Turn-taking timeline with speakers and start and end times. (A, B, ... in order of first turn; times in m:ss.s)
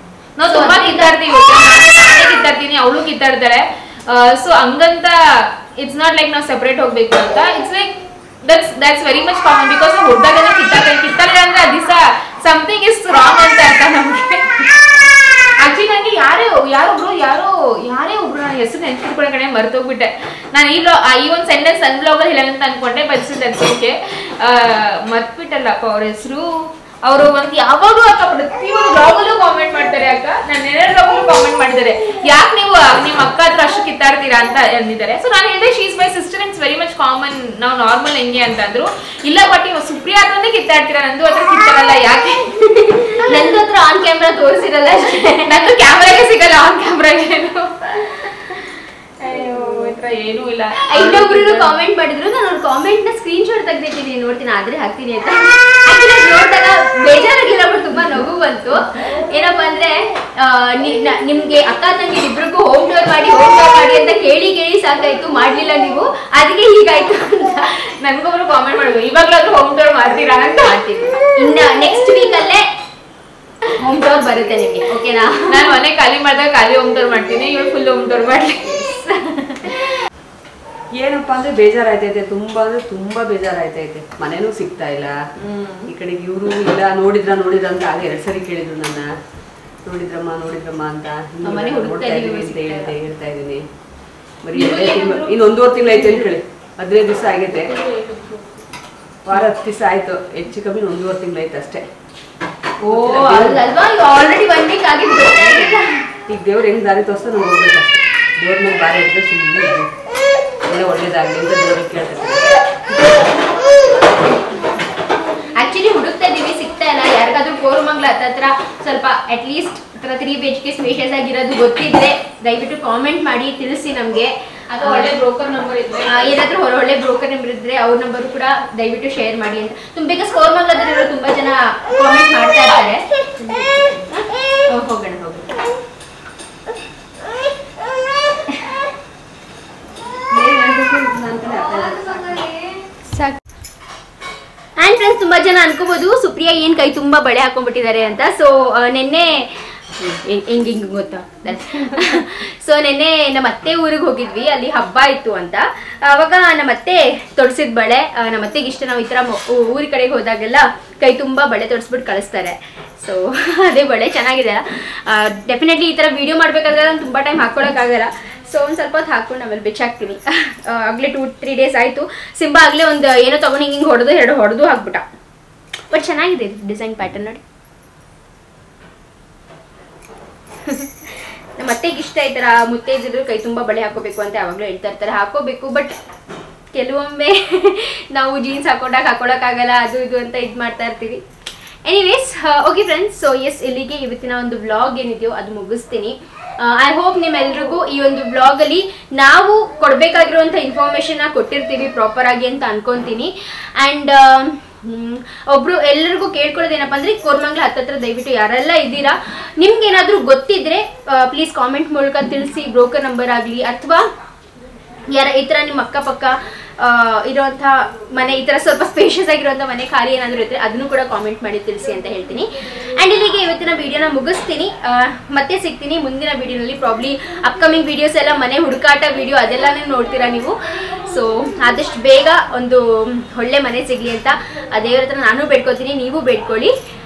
0:00.4-0:15.0 A
0:00.4-0:01.1 B
0:15.6-0:43.2 A
0:43.2-0:45.6 B
0:45.4-0:51.8 A
0:50.9-1:07.8 B
1:08.0-1:10.8 A
1:10.6-1:12.6 B
1:13.8-1:15.7 B
1:15.5-1:18.7 A
1:18.7-1:19.8 B
1:21.0-1:25.1 C
1:25.5-1:25.8 B
1:25.9-1:29.1 C
1:29.8-1:33.6 C
1:31.4-1:33.0 B
1:34.4-1:37.8 C
1:34.5-1:36.2 A
1:37.6-1:38.4 A
1:39.2-1:41.8 C
1:42.8-1:43.6 C
1:42.8-1:46.0 B
1:46.3-1:49.9 C
1:50.7-1:52.4 C
1:55.6-2:05.1 B
2:04.7-2:06.4 A
2:06.1-2:15.5 B
2:20.3-2:22.4 C
2:23.1-2:23.4 B
2:24.8-2:55.0 B
2:55.9-2:57.4 B
3:00.7-3:05.9 B
3:06.7-3:11.2 B
3:11.8-3:34.0 B
3:35.1-3:56.7 B